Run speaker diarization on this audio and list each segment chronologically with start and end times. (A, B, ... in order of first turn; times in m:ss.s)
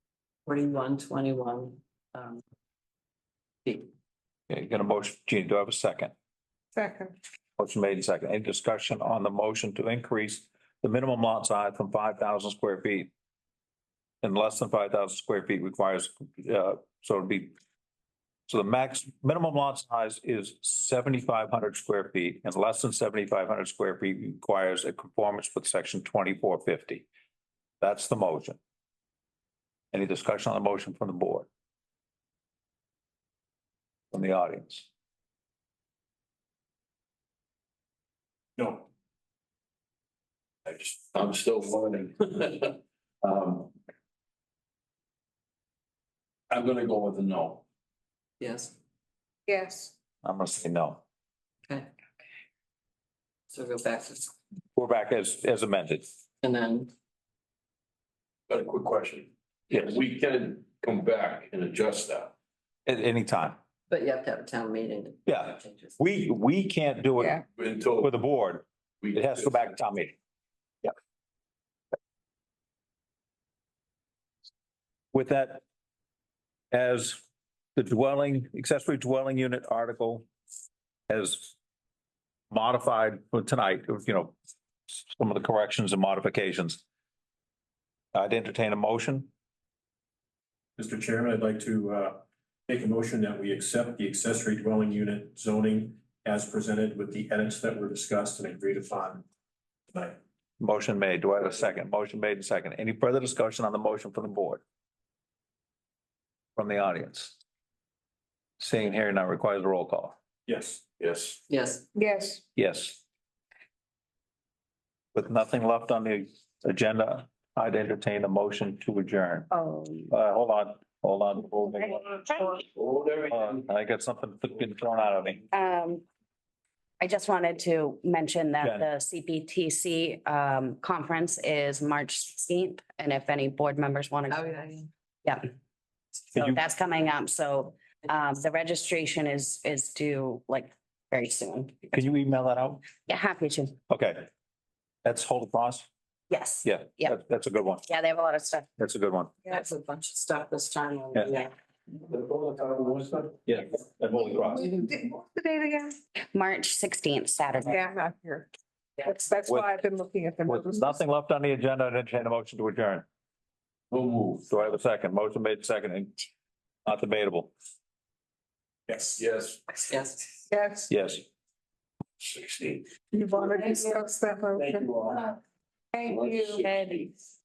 0:00.5-0:02.4 A
0:03.6-0:03.9 A
0:04.5-0:06.1 B
0:06.8-0:07.2 C
0:07.6-0:13.1 B
0:14.2-0:17.6 B
0:18.5-0:27.1 B
0:27.8-0:28.6 B
0:29.9-0:31.5 B
0:34.1-0:34.9 B
0:38.6-0:38.9 D
0:40.7-0:43.7 E
0:46.5-0:47.6 E
0:48.4-0:48.8 A
0:49.5-0:49.9 C
0:50.2-0:51.0 B
0:53.5-0:54.4 A
0:54.8-0:56.1 B
0:56.4-0:56.9 A
0:58.5-1:02.3 E
1:02.9-1:03.6 B
1:03.9-1:06.0 A
1:05.3-1:10.2 B
1:07.2-1:07.4 C
1:07.6-1:08.1 E
1:09.0-1:09.8 E
1:15.1-1:15.6 B
1:16.7-1:17.2 B
1:17.8-1:20.3 B
1:21.1-1:21.6 B
1:22.5-1:24.4 B
1:24.9-1:26.8 B
1:28.1-1:29.3 B
1:30.8-1:39.3 D
1:39.9-1:40.2 D
1:40.6-1:44.6 B
1:46.6-1:47.4 B
1:48.6-1:50.2 B
1:50.5-1:50.8 D
1:51.0-1:51.4 E
1:51.5-1:51.8 A
1:52.0-1:52.4 C
1:52.6-1:53.0 B
1:55.1-1:59.5 B
1:59.5-2:00.1 F
2:00.1-2:02.3 B
2:02.7-2:03.6 E
2:03.3-2:05.4 B
2:05.5-2:06.0 F
2:07.0-2:14.5 F
2:08.6-2:08.9 B
2:14.3-2:14.9 A
2:16.3-2:16.7 B
2:16.4-2:21.9 F
2:21.9-2:22.9 B
2:23.0-2:23.8 F
2:23.9-2:24.3 B
2:25.0-2:25.9 B
2:26.3-2:27.2 F
2:26.6-2:27.8 B
2:27.9-2:28.7 F
2:28.8-2:29.3 B
2:29.5-2:31.5 A
2:32.1-2:33.4 E
2:33.5-2:34.7 B
2:34.3-2:36.0 C
2:36.3-2:37.8 F
2:37.6-2:38.5 C
2:39.0-2:41.0 C
2:39.5-2:39.7 B
2:40.4-2:43.0 B
2:43.9-2:44.5 E
2:44.5-2:46.3 B
2:46.9-2:47.5 B
2:48.9-2:49.2 D
2:49.1-2:49.7 E
2:49.9-2:50.4 A
2:50.5-2:50.9 C
2:50.9-2:51.2 B
2:52.2-2:52.9 E
2:53.1-2:55.1 C
2:54.7-2:55.4 E
2:55.9-2:57.1 C
2:56.1-2:56.9 E